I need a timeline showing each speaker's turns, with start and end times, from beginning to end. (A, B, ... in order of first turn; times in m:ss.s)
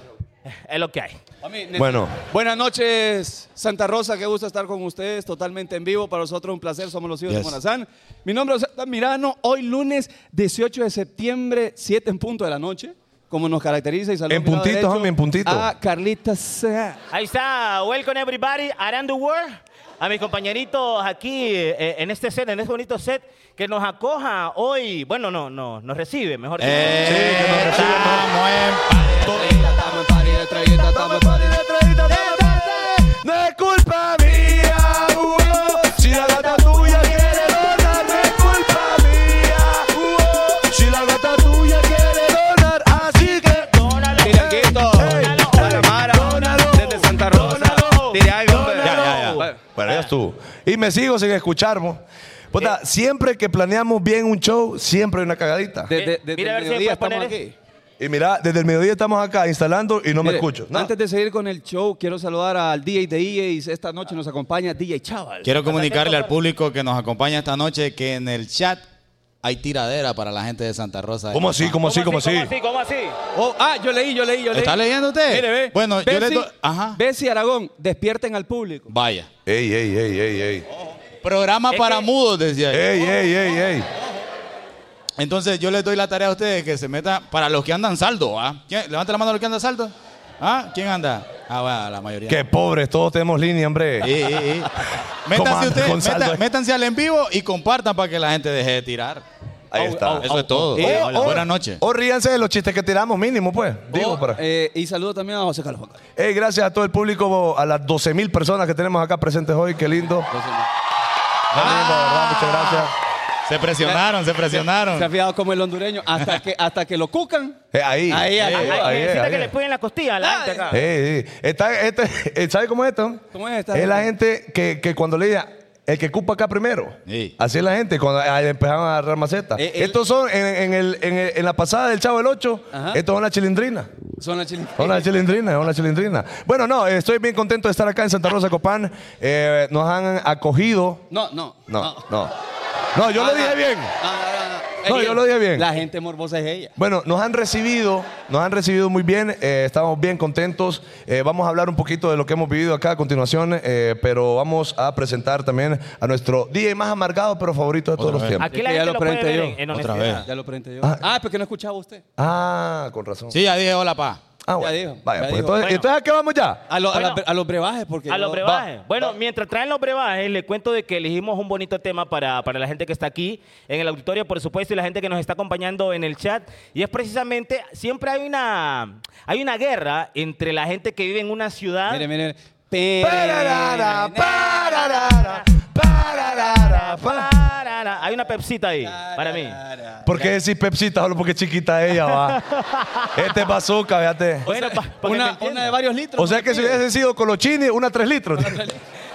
0:00.4-0:01.2 A
0:01.4-0:17.0 B
0:01.7-0:02.2 C
0:07.3-0:07.6 D
0:14.3-0:15.7 C
0:17.1-0:27.6 A
0:26.6-0:29.1 D
0:27.0-0:28.3 C
0:29.1-0:29.9 A
0:29.1-0:29.7 C
0:29.2-0:31.6 B
0:30.7-0:39.9 C
0:32.2-0:32.5 B
0:36.0-0:38.2 A
0:39.9-0:40.7 B
0:40.6-0:55.9 C
0:42.9-0:45.9 A
0:44.2-0:49.6 B
0:47.3-0:48.1 A
0:48.8-0:49.4 D
0:49.0-0:50.1 A
0:55.8-0:57.5 B
0:55.9-0:57.4 A
0:58.0-1:00.9 C
1:00.2-1:05.5 B
1:05.4-1:08.8 D
1:05.6-1:06.4 A
1:09.4-1:11.8 D
1:11.3-1:12.5 C
1:11.8-1:13.1 A
1:13.3-1:18.9 B
1:14.5-1:17.0 D
1:18.9-1:19.3 D
1:19.4-1:20.6 C
1:20.7-1:21.0 B
1:21.2-1:22.8 D
1:21.7-1:22.1 A
1:22.7-1:23.9 C
1:23.9-1:24.3 B
1:25.2-1:32.4 D
1:32.3-1:34.2 C
1:34.0-1:34.7 D
1:35.2-1:39.2 D
1:35.3-1:36.4 C
1:39.7-1:44.4 C
1:39.7-1:41.5 B
1:40.2-1:41.8 D
1:43.9-1:46.0 B
1:46.2-1:50.3 C
1:50.3-1:50.7 B
1:51.5-1:52.9 C
1:51.5-1:52.8 B
1:53.4-1:55.1 D
1:53.8-1:58.9 B
1:57.7-1:59.5 C
1:58.4-1:58.7 D
1:58.6-2:00.8 A
2:00.2-2:00.8 B
2:00.7-2:13.9 C
2:03.3-2:04.1 B
2:07.0-2:07.3 D
2:09.6-2:10.0 B
2:12.7-2:13.0 B
2:14.2-2:15.1 B
2:14.8-2:21.0 C
2:21.1-2:22.0 B
2:21.7-2:22.3 C
2:22.9-2:23.9 C
2:23.1-2:26.7 B
2:24.8-2:25.7 C
2:26.8-2:38.4 C
2:38.0-2:38.4 D
2:38.4-2:40.2 A
2:38.4-2:42.0 B
2:39.7-2:40.2 D
2:42.2-2:43.4 C
2:43.3-2:44.2 D
2:44.4-2:46.6 C
2:44.6-2:45.7 B
2:45.6-2:45.8 A
2:46.7-2:49.1 B
2:46.9-2:47.2 A
2:48.1-3:02.0 A
3:01.9-3:04.6 B
3:03.0-3:07.3 C
3:04.3-3:05.4 A
3:06.4-3:09.6 A
3:08.8-3:10.3 B
3:10.0-3:12.4 C
3:12.0-3:13.4 A
3:13.1-3:14.5 C
3:14.4-3:16.8 B
3:14.4-3:15.8 A
3:16.2-3:18.6 C
3:18.4-3:18.8 B